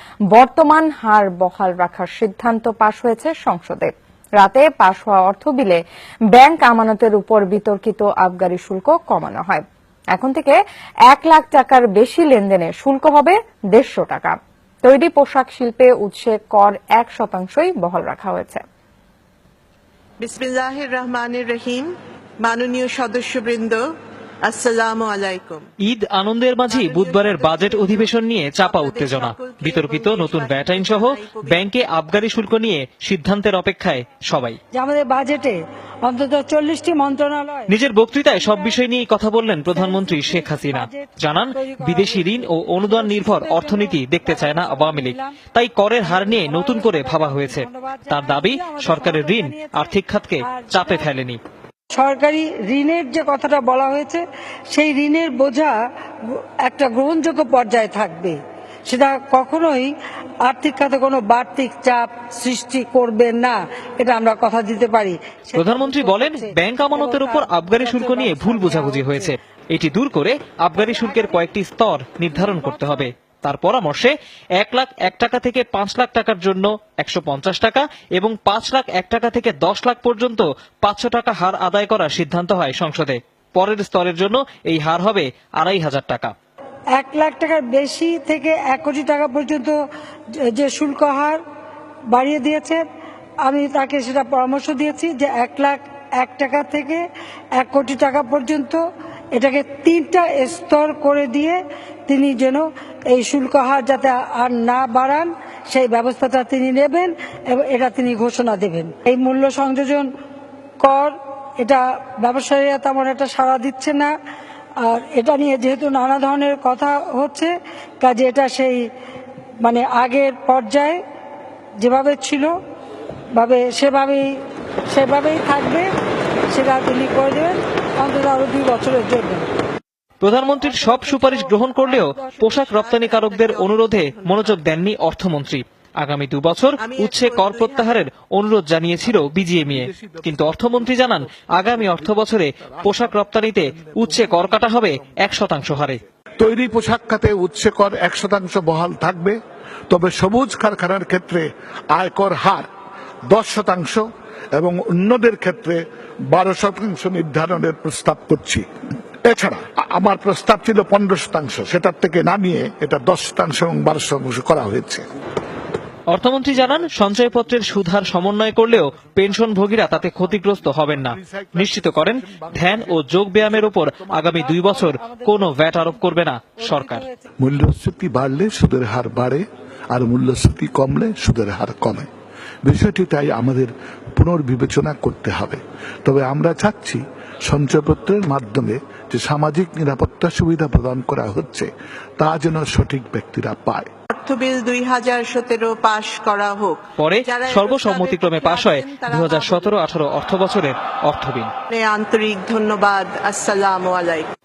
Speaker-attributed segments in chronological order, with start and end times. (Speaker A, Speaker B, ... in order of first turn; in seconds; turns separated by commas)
Speaker A: 0.3-5.8, Speaker A: 6.3-18.6, Speaker B: 20.2-23.8, Speaker B: 24.4-25.7, Speaker C: 25.8-34.6, Speaker B: 26.7-31.7, Speaker D: 34.7-38.8, Speaker C: 37.7-51.4, Speaker D: 39.7-45.4, Speaker D: 46.0-51.1, Speaker D: 51.9-59.9, Speaker D: 60.4-69.3, Speaker C: 65.5-86.3, Speaker D: 70.7-71.5, Speaker D: 72.3-73.1, Speaker D: 87.0-89.7, Speaker D: 90.4-91.4, Speaker D: 92.1-92.8, Speaker D: 93.4-97.0, Speaker D: 97.5-98.8, Speaker D: 99.3-110.1, Speaker D: 110.8-114.1, Speaker D: 114.8-118.8, Speaker D: 119.6-121.0, Speaker D: 121.8-122.5, Speaker D: 123.3-125.9, Speaker D: 126.5-129.4, Speaker C: 130.2-146.0, Speaker D: 130.6-132.6, Speaker B: 132.5-134.8, Speaker B: 136.8-138.1, Speaker E: 139.0-149.4, Speaker E: 149.9-152.7, Speaker E: 153.3-155.8, Speaker E: 156.3-158.7, Speaker E: 159.2-165.0, Speaker C: 166.1-177.0, Speaker E: 166.5-174.4, Speaker D: 174.3-177.3, Speaker E: 177.4-182.1, Speaker E: 182.6-193.9, Speaker B: 194.1-199.8, Speaker C: 197.0-201.5, Speaker B: 201.7-204.3